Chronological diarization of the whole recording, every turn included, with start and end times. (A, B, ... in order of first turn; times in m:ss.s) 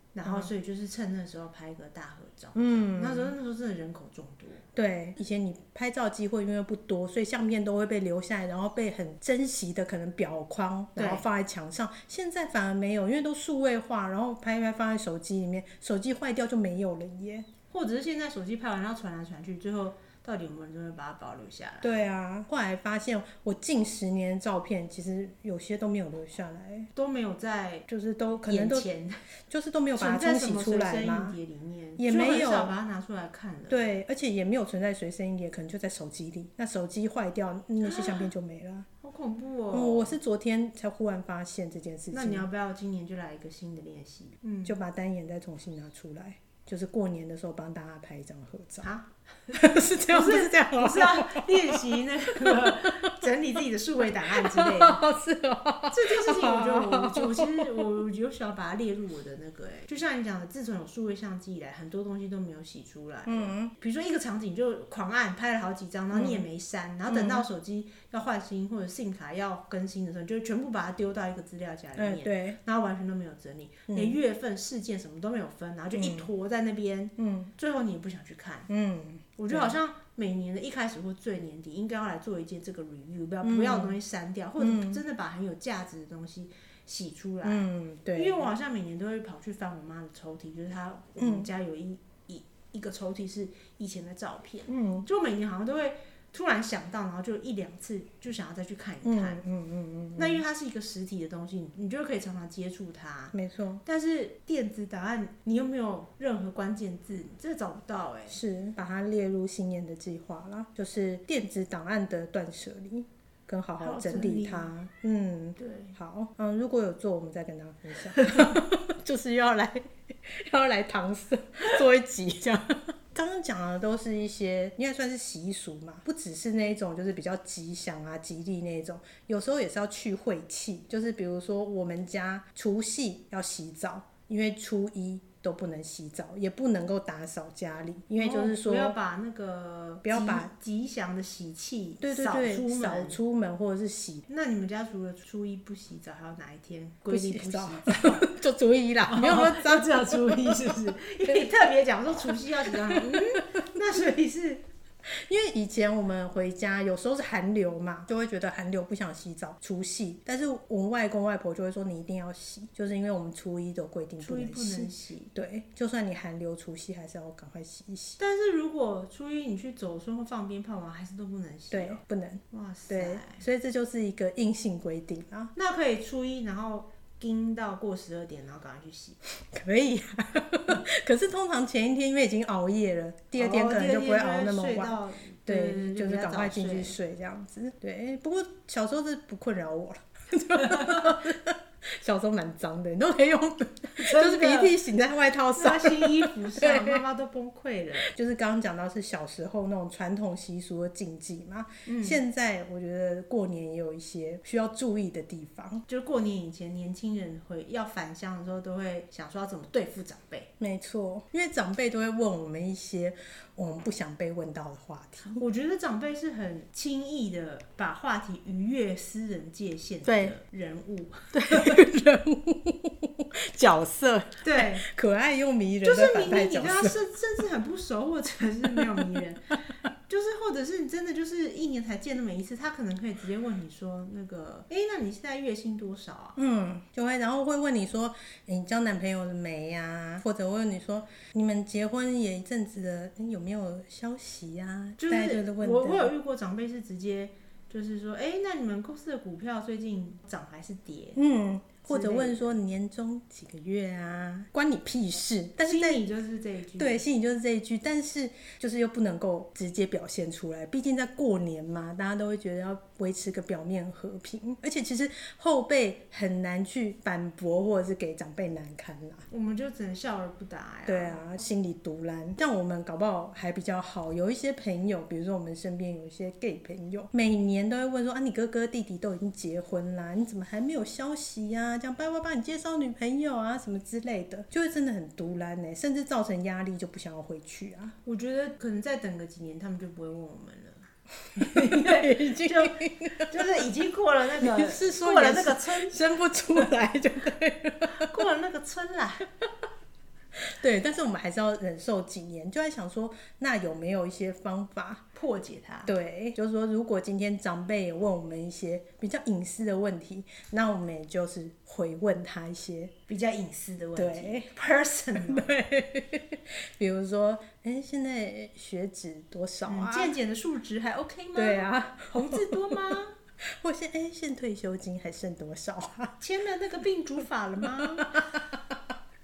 0:00.1-0:04.6 A
0:00.2-0:00.5 B
0:02.6-0:03.3 B
0:04.7-0:17.5 B
0:11.0-0:11.2 A
0:17.7-0:22.0 A
0:21.8-0:26.9 B
0:26.9-0:27.9 A
0:27.9-0:28.9 B
0:28.5-0:29.2 A
0:29.5-0:31.4 B
0:30.0-0:33.9 A
0:32.0-0:32.7 B
0:33.7-0:38.9 B
0:37.8-0:38.3 A
0:39.0-0:40.2 A
0:39.7-0:42.5 B
0:42.1-0:44.8 A
0:44.6-0:48.9 B
0:48.8-0:55.0 A
0:49.5-0:53.2 B
0:54.2-0:57.9 B
0:55.9-1:18.7 A
1:03.2-1:03.7 B
1:06.1-1:06.4 B
1:07.1-1:07.4 B
1:12.0-1:12.6 B
1:13.9-1:14.2 B
1:15.9-1:16.3 B
1:17.2-1:17.5 B
1:18.7-1:19.8 B
1:19.4-1:39.4 A
1:23.4-1:24.0 B
1:24.6-1:25.0 B
1:27.4-1:28.5 B
1:31.2-1:31.5 B
1:34.7-1:35.1 B
1:39.0-1:40.4 B
1:40.2-1:48.4 A
1:43.3-1:43.8 B
1:48.3-2:19.0 B
1:53.8-1:54.7 A
1:55.6-1:55.9 A
1:58.2-1:58.5 A
2:18.2-2:23.2 A
2:20.0-2:20.5 B
2:22.0-2:24.2 B
2:24.3-2:28.3 A
2:27.1-2:31.4 B
2:29.1-2:34.6 A
2:32.7-2:33.6 B
2:35.1-2:48.2 B
2:44.2-2:45.3 A
2:48.2-2:53.4 A
2:51.7-2:55.5 B
2:55.5-2:59.2 A
2:59.4-3:17.0 B
3:03.4-3:07.0 A
3:10.6-3:11.2 A
3:14.0-3:14.7 A
3:15.6-3:18.1 A
3:18.0-3:25.8 B
3:21.8-3:22.2 A
3:25.9-3:30.5 A
3:30.6-3:35.4 B
3:35.4-3:41.8 A
3:40.0-3:40.4 B
3:41.3-3:47.0 B
3:44.4-3:44.8 A
3:45.8-3:49.6 A
3:48.8-3:49.2 B
3:50.1-3:56.4 A
3:56.4-4:06.1 B
4:05.0-4:11.2 A
4:11.2-4:16.0 B
4:11.9-4:12.5 A
4:15.6-4:17.0 A
4:16.8-4:29.2 B
4:29.3-4:31.3 A
4:30.9-4:47.9 B
4:48.0-4:56.1 A
4:51.3-4:53.5 B
4:54.4-4:58.1 B
4:57.9-4:59.3 A
5:00.4-5:05.0 B
5:05.1-5:05.9 A
5:05.8-5:12.9 B
5:13.1-5:15.5 A
5:14.0-5:14.5 B
5:15.2-5:20.1 B
5:19.6-5:23.1 A
5:21.3-5:22.7 B
5:23.6-5:26.2 B
5:26.2-5:28.3 A
5:27.8-5:28.8 B